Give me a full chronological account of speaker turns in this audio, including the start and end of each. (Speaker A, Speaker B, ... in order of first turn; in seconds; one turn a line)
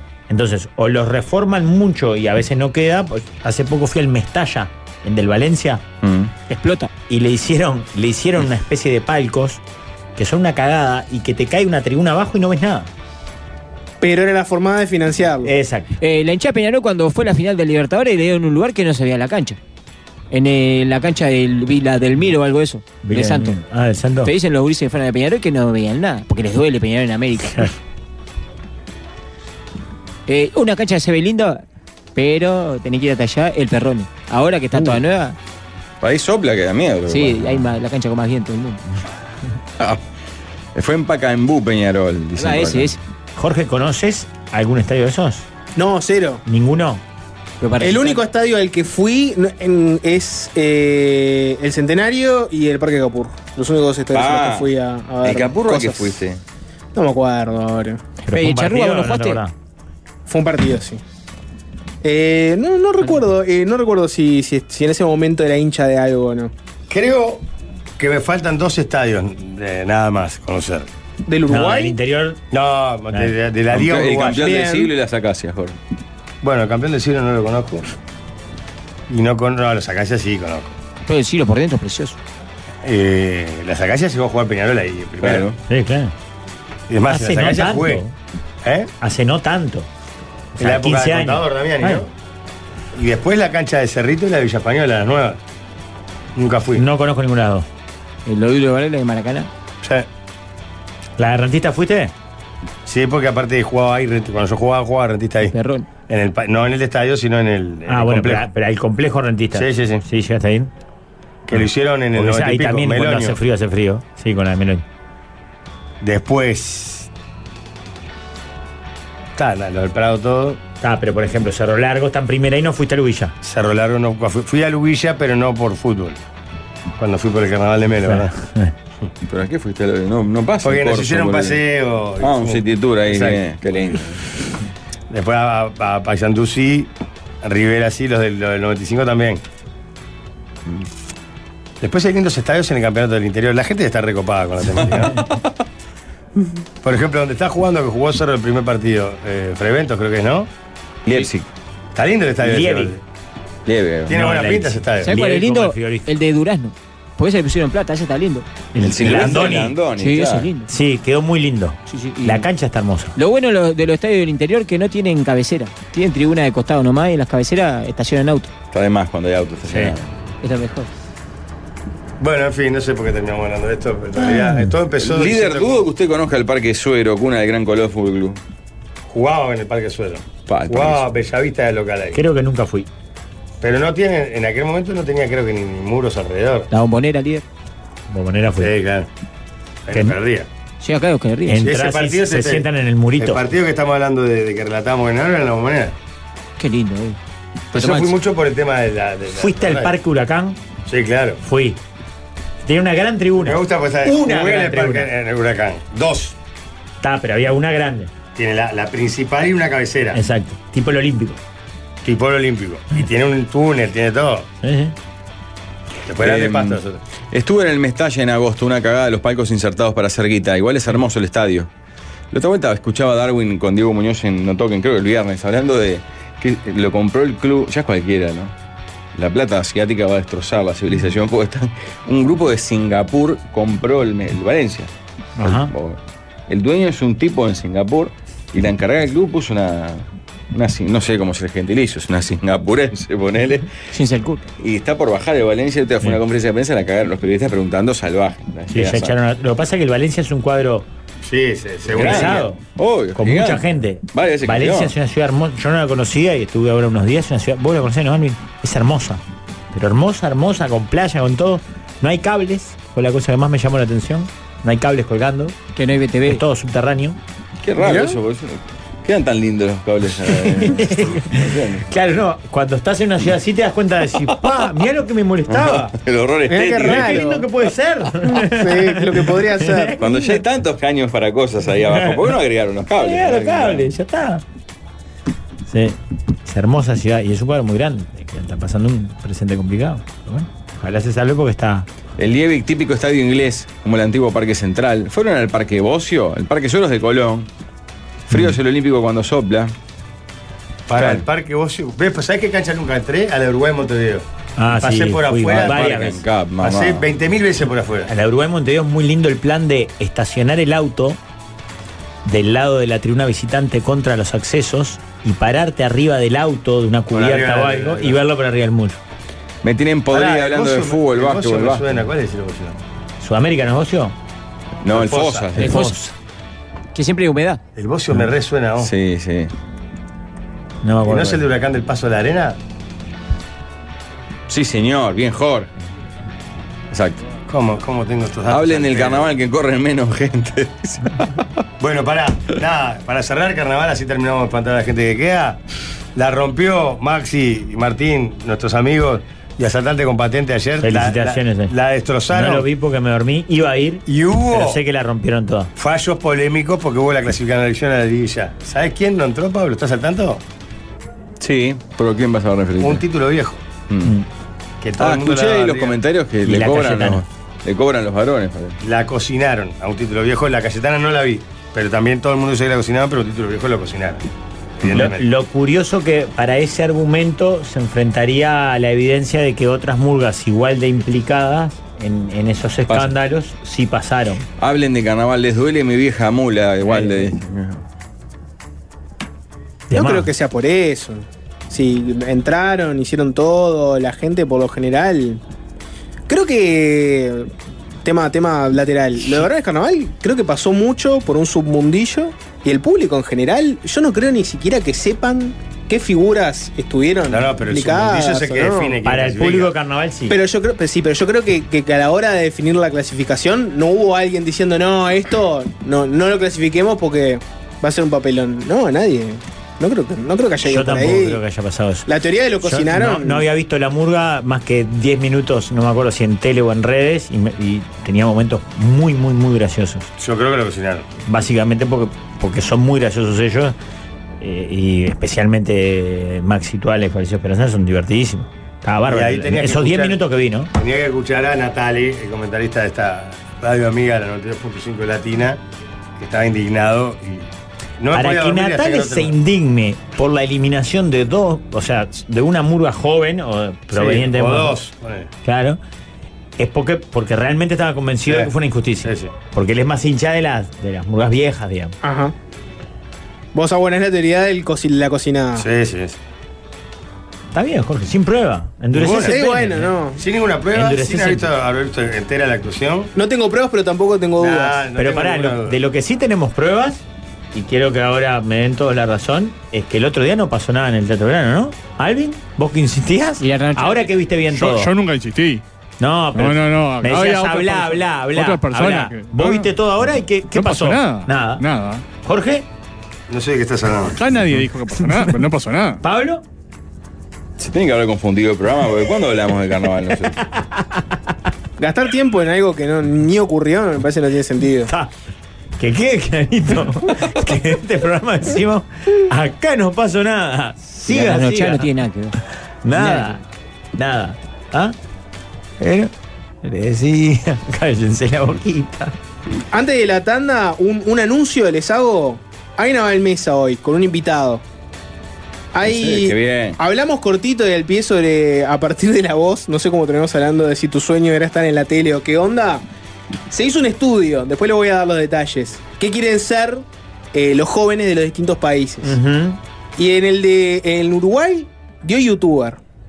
Speaker A: 0.3-5.8
Speaker B: 6.0-6.3
Speaker C: 6.5-6.9
Speaker A: 7.1-9.6
Speaker A: 10.2-12.9
Speaker D: 14.0-15.5
Speaker A: 15.4-15.9
Speaker C: 16.0-19.6
Speaker C: 20.3-23.6
Speaker A: 23.0-24.3
Speaker C: 24.2-27.7
Speaker C: 30.3-31.6
Speaker C: 32.1-35.4
Speaker B: 36.0-37.7
Speaker C: 37.1-38.8
Speaker B: 40.7-43.0
Speaker C: 42.4-43.0
Speaker A: 43.4-45.5
Speaker D: 45.8-46.4
Speaker A: 46.5-47.0
Speaker C: 47.6-48.2
Speaker D: 47.8-56.2
Speaker B: 54.1-56.4
Speaker D: 56.9-58.0
Speaker A: 58.2-59.5
Speaker C: 58.3-59.4
Speaker D: 60.3-61.0
Speaker D: 62.0-66.5
Speaker E: 66.9-67.4
Speaker E: 68.0-70.9
Speaker D: 71.2-71.9
Speaker A: 71.5-72.4
Speaker E: 72.5-74.5
Speaker B: 73.7-75.8
Speaker D: 74.4-74.9
Speaker E: 76.4-77.9
Speaker E: 79.1-80.7
Speaker C: 81.0-82.2
Speaker E: 82.8-85.5
Speaker B: 85.2-85.6
Speaker A: 85.7-86.1
Speaker E: 86.9-88.0
Speaker A: 87.1-88.1
Speaker E: 88.6-88.9
Speaker A: 89.0-89.9
Speaker A: 90.5-92.0
Speaker E: 90.6-92.1
Speaker E: 92.9-95.4
Speaker E: 96.3-96.8
Speaker A: 96.7-97.7
Speaker C: 98.2-99.5
Speaker A: 101.2-102.1
Speaker E: 102.8-105.5
Speaker C: 105.5-105.9
Speaker E: 106.0-108.5
Speaker A: 107.9-110.7
Speaker E: 109.5-110.0
Speaker E: 111.5-113.4
Speaker A: 111.5-114.8
Speaker E: 116.0-117.1
Speaker E: 119.3-120.6
Speaker A: 120.8-123.3
Speaker E: 123.4-126.2
Speaker E: 127.0-128.3
Speaker A: 128.1-128.7
Speaker B: 129.2-131.6
Speaker E: 130.6-133.4
Speaker B: 132.2-134.2
Speaker E: 135.1-136.9
Speaker E: 137.4-139.4
Speaker E: 141.8-145.2
Speaker E: 146.8-150.5
Speaker B: 151.1-151.5
Speaker E: 151.9-153.0
Speaker A: 152.4-152.9
Speaker B: 153.7-154.2
Speaker E: 154.1-155.1
Speaker A: 154.1-156.1
Speaker C: 155.0-158.5
Speaker A: 158.7-159.8
Speaker B: 158.8-160.5
Speaker C: 159.1-160.7
Speaker A: 160.7-163.1
Speaker C: 161.9-162.4
Speaker C: 163.2-168.5
Speaker B: 168.7-170.1
Speaker A: 169.7-169.9
Speaker C: 170.4-170.9
Speaker E: 172.2-175.8
Speaker A: 174.2-174.7
Speaker B: 175.0-178.4
Speaker E: 179.1-182.2
Speaker B: 180.4-181.1
Speaker A: 182.1-182.9
Speaker E: 183.6-186.7
Speaker C: 186.7-187.4
Speaker A: 188.1-188.7
Speaker E: 188.6-189.1
Speaker E: 189.8-190.5
Speaker C: 190.8-191.6
Speaker A: 191.4-193.4
Speaker E: 191.6-192.7
Speaker E: 193.2-195.9
Speaker C: 196.6-197.2
Speaker E: 197.7-199.9
Speaker C: 197.7-198.1
Speaker A: 199.3-200.6
Speaker E: 200.8-201.4
Speaker A: 201.4-201.8
Speaker A: 202.6-205.1
Speaker E: 203.4-206.3
Speaker A: 207.0-208.1
Speaker E: 208.3-210.2
Speaker A: 210.1-211.4
Speaker E: 212.0-214.5
Speaker A: 214.6-214.9
Speaker E: 216.1-217.0
Speaker B: 216.2-216.8
Speaker B: 217.3-221.7
Speaker B: 222.3-228.5
Speaker B: 229.1-243.7
Speaker A: 235.4-235.7
Speaker C: 243.9-244.4
Speaker B: 244.6-249.2
Speaker A: 248.7-250.9
Speaker E: 251.2-252.5
Speaker A: 251.9-252.6
Speaker B: 251.9-254.9
Speaker A: 253.2-259.2
Speaker A: 259.7-265.6
Speaker C: 265.7-266.4
Speaker A: 266.3-267.2
Speaker B: 267.6-271.9
Speaker D: 267.8-268.2
Speaker A: 270.3-275.9
Speaker B: 275.5-277.4
Speaker D: 276.5-277.4
Speaker A: 276.7-280.4
Speaker D: 278.3-279.9
Speaker B: 280.0-283.9
Speaker A: 281.9-282.3
Speaker A: 283.0-284.4
Speaker A: 285.7-291.9
Speaker B: 292.2-297.5
Speaker B: 298.3-299.7
Speaker A: 298.3-298.6
Speaker E: 300.9-305.8
Speaker B: 300.9-301.2
Speaker A: 304.6-306.2
Speaker B: 305.5-307.1
Speaker E: 306.6-308.1
Speaker A: 308.1-311.2
Speaker A: 312.2-319.0
Speaker E: 317.1-318.2
Speaker B: 319.6-322.0
Speaker E: 320.1-322.8
Speaker A: 323.2-324.1
Speaker B: 324.8-325.7
Speaker E: 324.9-325.5
Speaker C: 325.6-326.0
Speaker A: 325.6-326.1
Speaker C: 326.9-327.6
Speaker E: 327.8-328.9
Speaker B: 328.8-329.5
Speaker A: 330.8-331.4
Speaker E: 331.1-332.6
Speaker B: 334.5-335.7
Speaker B: 336.9-337.2
Speaker E: 337.5-339.3
Speaker B: 338.5-341.3
Speaker E: 341.8-345.6
Speaker E: 346.1-352.6
Speaker A: 350.8-351.7
Speaker A: 352.3-355.7
Speaker E: 354.1-354.8
Speaker E: 355.8-360.4
Speaker B: 361.4-363.0
Speaker E: 362.8-363.6
Speaker B: 363.9-364.1
Speaker E: 364.8-365.9
Speaker B: 365.0-368.8
Speaker A: 366.4-367.2
Speaker E: 368.8-374.2
Speaker E: 374.8-375.2
Speaker A: 374.9-384.4
Speaker B: 382.9-383.1
Speaker B: 384.6-387.8
Speaker A: 389.9-390.3
Speaker D: 389.9-395.4
Speaker D: 396.3-397.5
Speaker D: 398.0-409.0
Speaker E: 407.3-409.7
Speaker A: 409.0-410.4
Speaker D: 410.3-421.4
Speaker A: 420.6-422.1
Speaker D: 422.1-423.4
Speaker A: 422.6-430.1
Speaker E: 430.2-431.1
Speaker A: 431.3-433.8
Speaker A: 434.4-440.7
Speaker E: 439.1-440.2
Speaker E: 440.7-445.6
Speaker E: 446.2-447.5
Speaker E: 448.0-449.4
Speaker A: 448.1-454.8
Speaker E: 453.9-455.3
Speaker A: 455.4-455.8
Speaker A: 456.6-461.9
Speaker E: 458.2-458.5
Speaker E: 459.0-459.3
Speaker D: 462.0-462.3
Speaker D: 463.5-465.7
Speaker E: 465.6-466.2
Speaker A: 467.5-469.9
Speaker E: 468.9-469.4
Speaker D: 469.2-470.2
Speaker E: 470.2-473.1
Speaker A: 470.7-471.5
Speaker D: 473.1-474.8
Speaker E: 474.4-475.8
Speaker A: 474.9-477.0
Speaker A: 477.5-484.9
Speaker C: 483.4-484.1
Speaker F: 484.5-485.6
Speaker A: 486.0-491.6
Speaker F: 486.3-489.7
Speaker F: 490.5-492.0
Speaker A: 492.2-492.6
Speaker E: 493.3-494.1
Speaker F: 494.0-496.0
Speaker A: 496.0-496.4
Speaker B: 497.6-500.4
Speaker A: 500.5-501.0
Speaker D: 501.8-504.9
Speaker A: 505.8-511.9
Speaker C: 511.1-512.4
Speaker A: 512.8-513.4
Speaker C: 512.9-513.4
Speaker A: 514.0-514.9
Speaker A: 515.8-516.1
Speaker A: 516.6-519.1
Speaker D: 519.7-524.6
Speaker D: 525.7-532.8
Speaker B: 525.8-526.8
Speaker D: 533.5-539.1
Speaker A: 539.0-539.6
Speaker D: 540.0-542.8